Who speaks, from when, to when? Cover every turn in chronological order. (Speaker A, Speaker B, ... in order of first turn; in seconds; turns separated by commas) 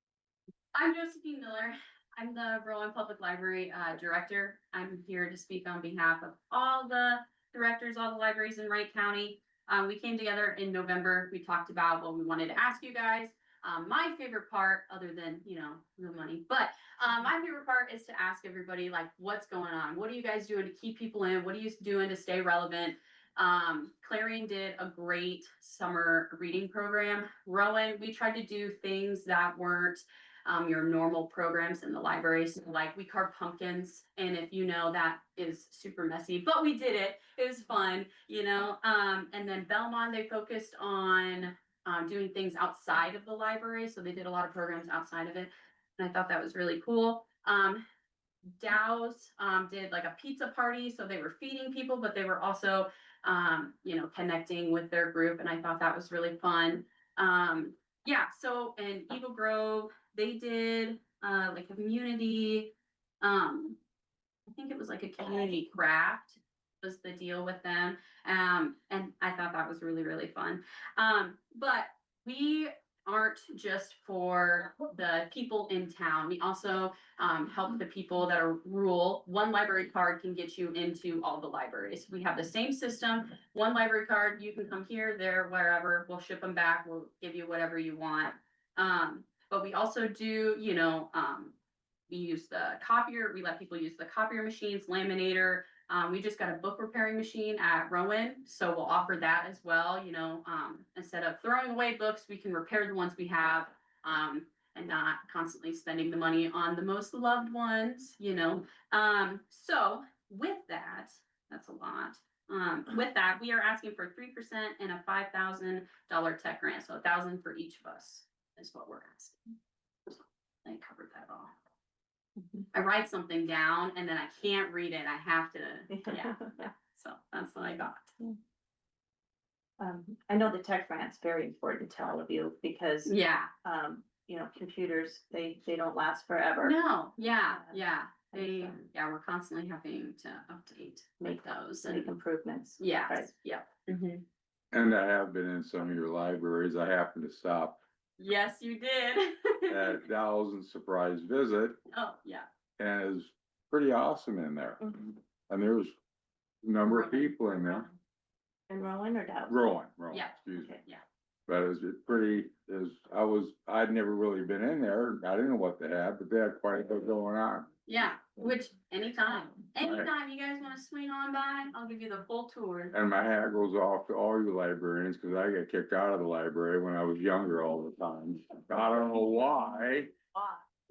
Speaker A: 0.7-47.8, Speaker A: 48.6-63.8, Speaker A: 64.5-91.5, Speaker A: 92.1-119.4, Speaker A: 120.1-121.5, Speaker A: 122.7-128.1, Speaker B: 125.9-126.7, Speaker B: 129.8-136.8, Speaker A: 133.0-133.5, Speaker A: 136.6-142.1, Speaker B: 137.5-138.8, Speaker B: 141.2-143.3, Speaker A: 142.8-143.7, Speaker B: 143.8-144.2, Speaker C: 144.7-147.8, Speaker A: 148.2-150.0, Speaker C: 149.7-151.8, Speaker A: 151.9-152.4, Speaker C: 152.8-155.9, Speaker C: 156.6-157.9, Speaker A: 156.9-157.9, Speaker B: 158.7-159.7, Speaker C: 159.5-160.7, Speaker A: 160.1-161.0, Speaker C: 161.5-167.7, Speaker A: 167.8-172.9, Speaker C: 169.8-170.1, Speaker C: 172.9-180.1